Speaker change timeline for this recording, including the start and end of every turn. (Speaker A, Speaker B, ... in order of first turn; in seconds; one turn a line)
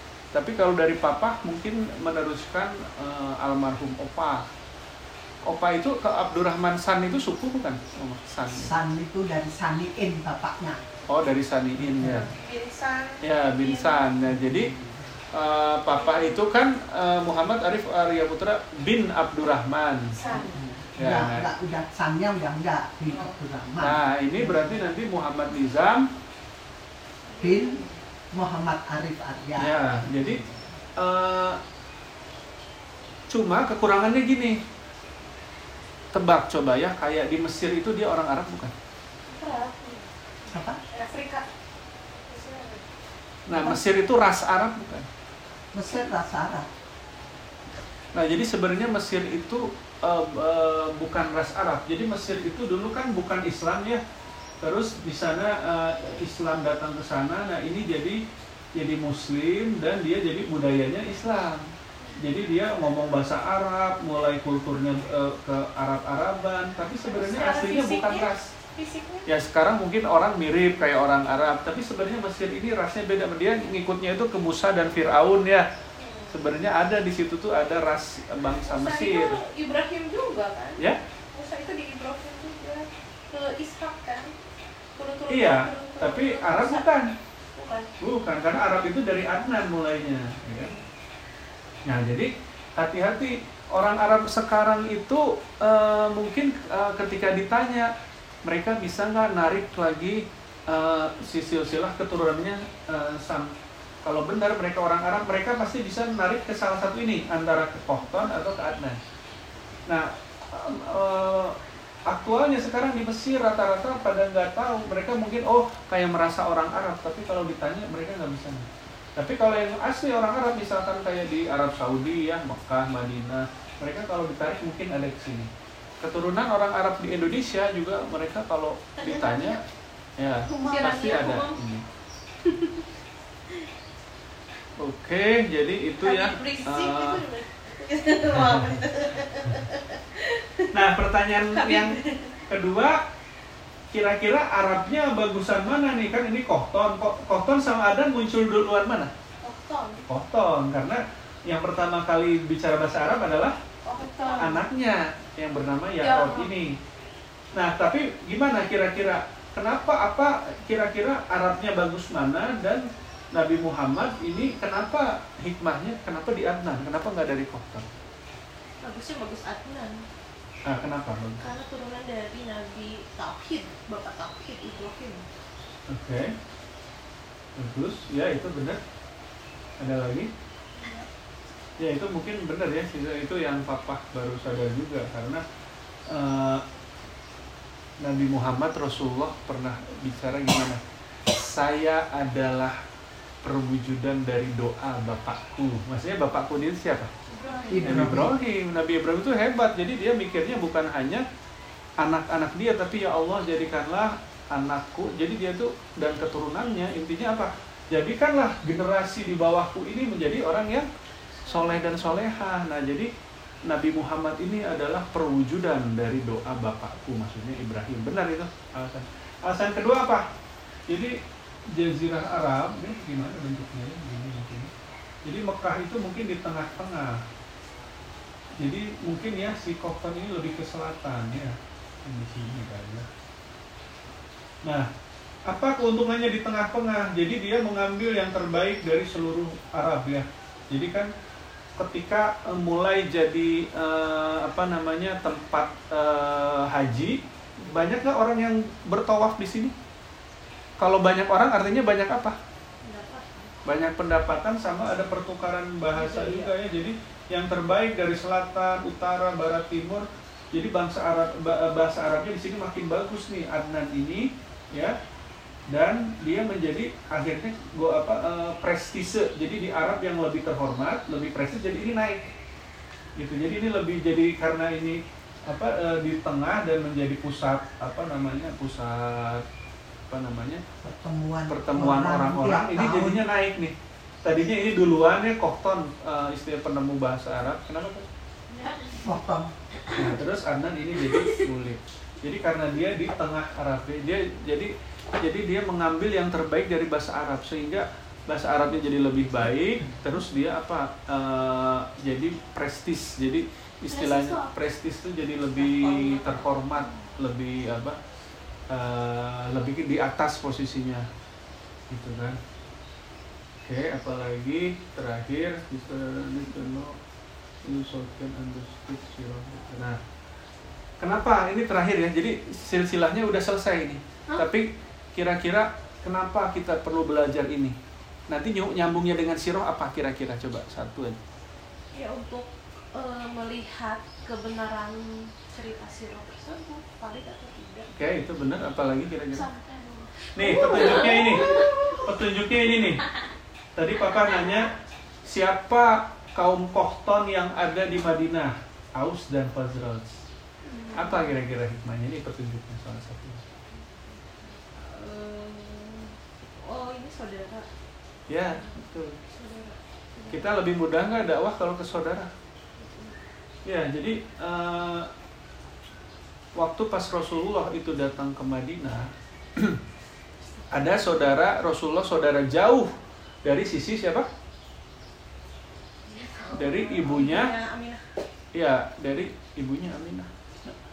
Speaker A: 0.3-4.5
Speaker A: 5.4-8.7
Speaker B: 8.5-10.8
Speaker A: 11.1-12.3
Speaker B: 11.8-12.3
Speaker C: 12.0-14.1
Speaker A: 13.2-14.7
Speaker B: 14.2-15.1
Speaker A: 15.3-20.2
Speaker C: 15.9-16.5
Speaker C: 20.1-20.6
Speaker B: 20.2-24.9
Speaker A: 21.0-21.5
Speaker C: 23.1-23.4
Speaker A: 23.8-26.1
Speaker C: 27.3-28.0
Speaker B: 27.4-30.6
Speaker A: 29.6-30.4
Speaker A: 31.0-31.6
Speaker A: 33.3-34.6
Speaker A: 36.1-38.7
Speaker C: 39.3-41.5
Speaker B: 40.5-40.8
Speaker C: 42.2-42.8
Speaker A: 43.5-45.1
Speaker B: 45.7-46.7
Speaker A: 48.1-54.0
Speaker A: 54.6-58.2
Speaker A: 58.8-68.5
Speaker C: 67.1-69.3
Speaker A: 69.3-75.7
Speaker C: 76.0-76.4
Speaker A: 76.3-79.4
Speaker C: 78.6-80.8
Speaker C: 81.3-84.3
Speaker C: 85.0-87.9
Speaker A: 85.3-87.1
Speaker A: 88.0-90.7
Speaker C: 90.5-90.9
Speaker A: 91.9-97.9
Speaker A: 98.5-103.5
Speaker A: 104.0-109.0
Speaker A: 109.9-111.6
Speaker A: 112.1-125.5
Speaker A: 126.0-129.6
Speaker C: 129.0-129.6
Speaker A: 130.2-131.8
Speaker C: 130.5-131.6
Speaker C: 132.4-132.8
Speaker A: 134.8-137.2
Speaker C: 136.0-140.7
Speaker A: 138.4-138.8
Speaker A: 140.7-143.0
Speaker C: 141.5-142.4
Speaker A: 143.9-149.1
Speaker C: 149.4-150.0
Speaker A: 150.1-153.6
Speaker C: 153.8-154.7
Speaker A: 154.4-156.8
Speaker C: 156.0-156.5
Speaker A: 157.6-167.9
Speaker C: 168.8-170.1
Speaker A: 170.7-171.5
Speaker C: 171.4-175.3
Speaker A: 175.9-176.3
Speaker A: 177.6-178.8
Speaker A: 179.8-180.3
Speaker C: 180.8-181.1
Speaker A: 181.8-185.4
Speaker A: 186.1-186.6
Speaker A: 188.0-192.8
Speaker A: 193.4-197.1
Speaker C: 197.3-198.2
Speaker B: 197.7-198.3
Speaker A: 197.8-201.2
Speaker A: 202.0-210.9
Speaker C: 211.4-212.2
Speaker A: 211.4-213.1
Speaker A: 213.7-220.3
Speaker A: 220.9-221.2
Speaker A: 221.7-224.7
Speaker A: 225.2-227.2
Speaker A: 228.6-233.1
Speaker A: 235.5-241.1
Speaker A: 241.8-249.7
Speaker A: 250.8-252.4
Speaker C: 252.8-253.6
Speaker A: 253.7-265.0
Speaker C: 255.9-256.5
Speaker A: 265.7-272.2
Speaker A: 273.2-279.4
Speaker A: 280.1-280.6
Speaker B: 280.8-283.2
Speaker A: 281.5-288.1
Speaker C: 288.5-289.2
Speaker B: 289.0-289.5
Speaker A: 289.9-308.0
Speaker C: 291.0-291.5
Speaker C: 305.6-307.1
Speaker A: 308.7-311.1
Speaker A: 311.9-312.4
Speaker A: 313.6-317.0
Speaker A: 317.6-320.0
Speaker A: 321.0-327.8
Speaker A: 328.3-331.2
Speaker C: 331.9-337.9
Speaker A: 337.9-339.5
Speaker C: 339.3-342.1
Speaker A: 340.4-343.1
Speaker C: 342.6-343.2
Speaker A: 343.8-344.7
Speaker C: 344.3-344.5
Speaker A: 345.2-350.2
Speaker C: 350.6-351.3
Speaker A: 350.9-353.4
Speaker C: 353.7-357.7
Speaker A: 358.3-359.2
Speaker C: 358.5-360.5
Speaker A: 360.3-362.3
Speaker C: 362.8-363.2
Speaker A: 363.6-365.1
Speaker A: 366.6-369.8
Speaker C: 370.4-371.4
Speaker A: 370.7-372.9
Speaker A: 373.4-374.3
Speaker C: 376.1-378.1
Speaker A: 376.5-377.5
Speaker A: 378.5-380.7